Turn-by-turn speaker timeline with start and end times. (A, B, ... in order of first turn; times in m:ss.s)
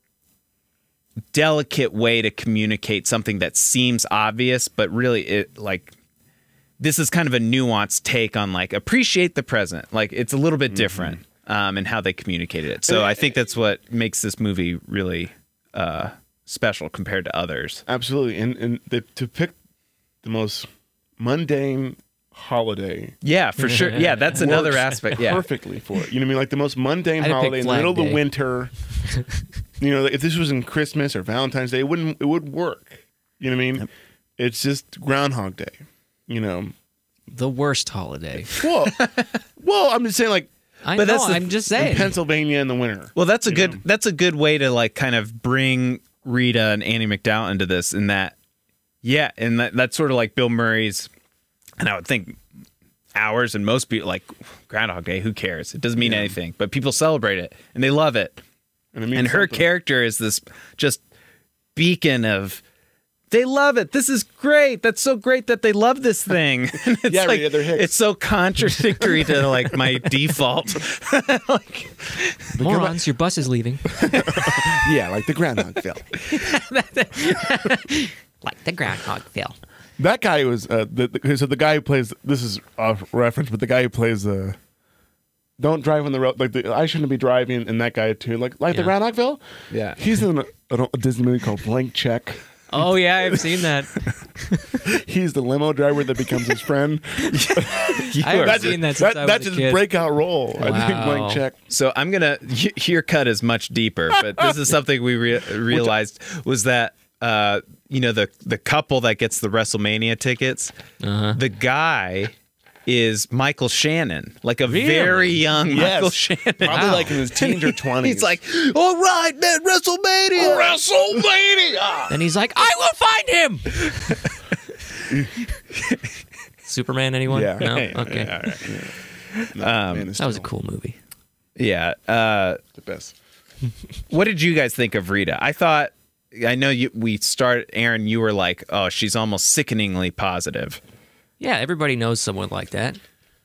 0:01.3-0:05.9 A
0:06.8-0:17.8 A
0:10.7-0:11.2 B
0:12.9-0:13.3 B
0:17.9-0:19.6 B
0:20.2-0:20.7 B
0:21.2-0:23.2 B
0:23.2-0:25.4 A
0:23.7-0:24.0 C
0:24.3-0:28.7 B
0:27.2-0:28.2 C
0:29.8-0:33.9 B
0:34.4-0:36.7 B
0:37.3-0:38.5 C
0:38.5-0:39.0 B
0:38.8-0:39.3 A
0:39.6-0:40.5 B
0:40.8-0:42.1 C
0:40.9-0:41.5 A
0:41.8-0:43.8 B
0:43.2-0:48.3 A
0:49.0-0:51.1 A
0:51.8-0:52.4 A
0:53.1-0:58.4 A
0:56.0-0:56.4 B
0:58.9-0:59.7 B
0:59.1-1:01.0 A
1:01.7-1:02.6 A
1:03.3-1:12.6 A
1:07.0-1:07.9 B
1:12.6-1:13.0 B
1:12.6-1:14.0 C
1:14.0-1:16.1 B
1:14.1-1:14.9 A
1:16.3-1:19.6 C
1:20.0-1:24.6 B
1:25.6-1:29.4 B
1:29.7-1:30.0 A
1:29.9-1:32.4 B
1:32.7-1:34.8 C
1:33.3-1:33.6 B
1:34.8-1:41.6 B
1:37.2-1:38.8 A
1:38.2-1:39.9 C
1:40.6-1:41.4 C
1:41.7-1:50.7 A
1:44.2-1:44.5 B
1:45.7-1:45.9 B
1:51.0-1:51.4 C
1:51.3-1:52.3 A
1:52.8-2:00.8 A
1:54.7-1:55.4 C
1:55.7-1:58.4 B
1:56.6-1:57.1 C
2:00.3-2:02.1 B
2:02.1-2:04.3 C
2:05.1-2:05.4 B
2:05.7-2:06.0 A
2:06.6-2:08.3 C
2:07.3-2:09.0 B
2:09.4-2:10.1 A
2:09.5-2:10.5 B
2:10.2-2:11.0 C
2:11.6-2:12.6 A
2:12.7-2:13.1 B
2:14.1-2:20.8 A
2:21.4-2:23.0 C